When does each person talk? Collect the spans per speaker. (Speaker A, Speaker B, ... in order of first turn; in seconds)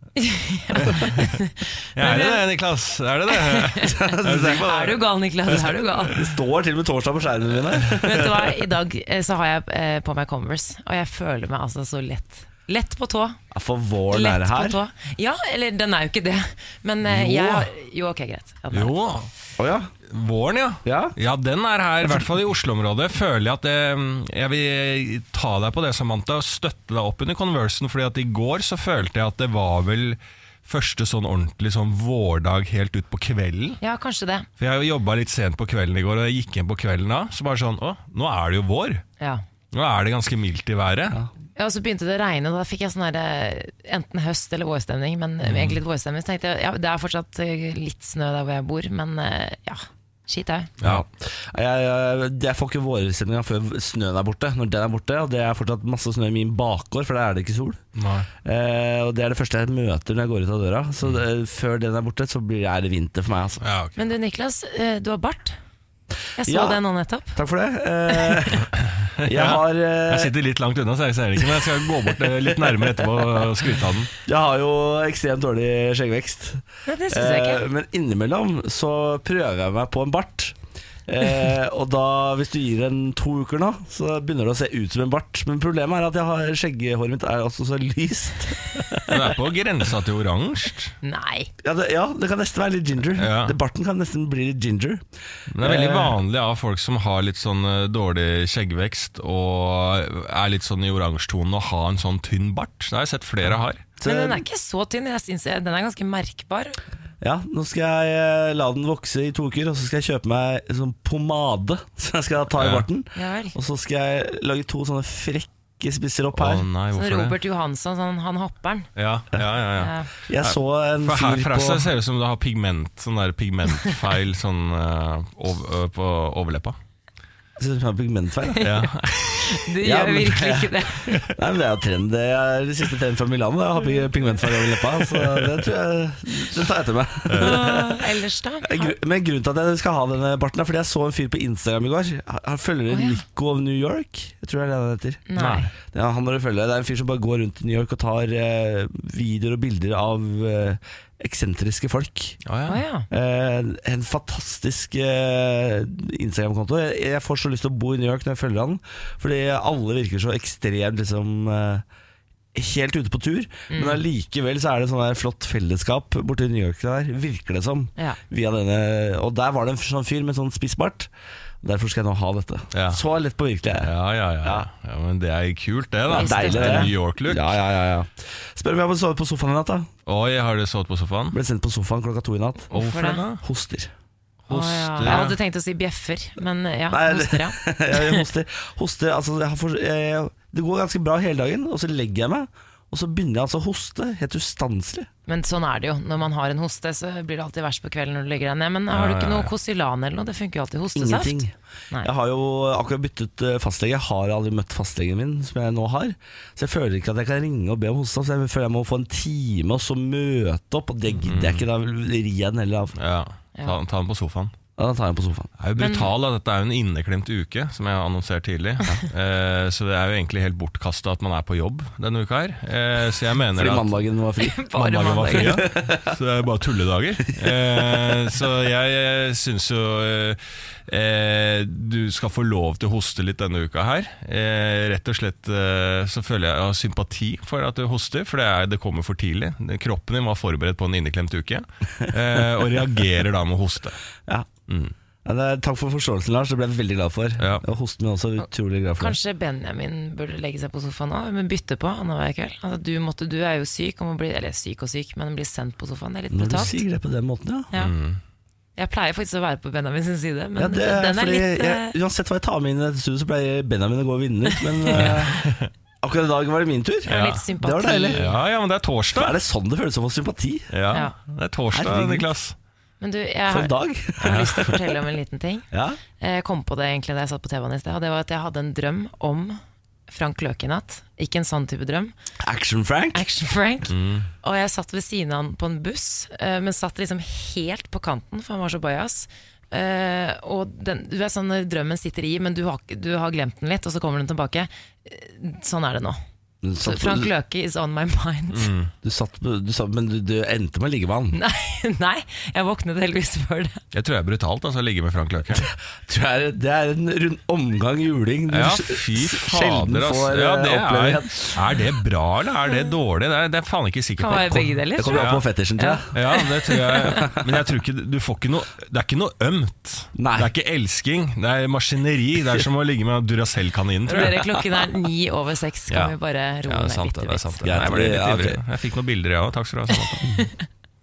Speaker A: 0.2-2.4, 3.3-4.0, 4.6-6.2, 8.0-13.4, 14.1-18.9, 33.8-34.5, 41.5-50.7, 64.0-65.6, 66.4-67.4, 68.1-68.5, 76.8-77.6, 91.0-91.5, 104.0-106.8, 113.1-113.5, 116.9-118.9, 119.8-120.1, 128.6-131.1, 137.4-138.9, 142.9-143.2, 145.3-145.7, 152.7-153.1, 163.7-164.0, 176.1-176.9, 182.7-183.2, 184.5-188.2, 195.3-202.1, 215.8-216.1, 224.4-225.6, 249.0-256.8, 258.8-261.9, 267.1-268.3, 273.0-275.7, 276.2-282.1, 283.1-296.2, 296.8-298.7, 301.3-303.8, 314.2-317.2, 324.1-327.5, 330.2-330.6
Speaker B: 0.8-1.2, 1.9-5.0, 18.7-19.3, 20.1-33.8, 34.6-39.0, 39.7-41.2, 45.4-45.8, 57.9-58.3, 63.6-64.0, 68.8-74.1, 89.1-91.0, 93.2-93.5, 95.5-103.8, 112.6-112.8, 116.3-117.3, 119.0-126.8, 128.6-129.3, 134.9-135.6, 137.3-137.6, 145.4-145.7, 152.4-152.8, 172.7-173.0, 173.8-177.6, 180.1-181.3, 182.7-183.4, 184.5-185.3, 198.9-199.5, 211.2-211.6, 213.0-214.5, 215.6-223.9, 224.7-244.0, 244.7-244.9, 247.4-247.6, 257.7-258.2, 264.9-265.7, 267.1-267.4, 268.1-269.4, 270.7-272.5, 274.2-274.6, 283.9-284.3, 298.5-298.9, 303.9-305.7, 308.5-315.4, 316.1-324.4, 326.6-330.3
Speaker C: 3.9-4.7, 6.1-8.4, 13.5-14.8, 17.2-17.6, 19.6-19.9, 20.8-21.1, 50.8-57.8, 58.4-63.6, 66.4-66.8, 67.3-68.7, 69.2-70.3, 71.4-73.4, 74.2-89.3, 91.6-95.0, 95.6-96.2, 104.0-104.4, 107.2-116.6, 120.3-121.9, 127.6-128.7, 129.8-138.0, 138.6-145.2, 145.8-152.4, 153.1-161.8, 162.5-171.1, 171.6-173.9, 176.1-179.9, 181.3-182.7, 183.4-183.9, 185.0-185.3, 186.9-195.1, 200.9-212.9, 214.8-215.5, 223.5-224.6, 225.3-226.2, 227.4-228.2, 242.4-242.8, 245.2-249.2, 256.3-257.7, 260.6-265.5, 266.0-268.2, 269.1-270.7, 271.7-272.3, 273.5-274.8, 275.7-276.0, 282.4-283.2, 296.6-297.3, 299.0-301.4, 305.5-311.9, 315.0-317.5, 320.1-320.5, 324.3-324.6, 327.6-328.6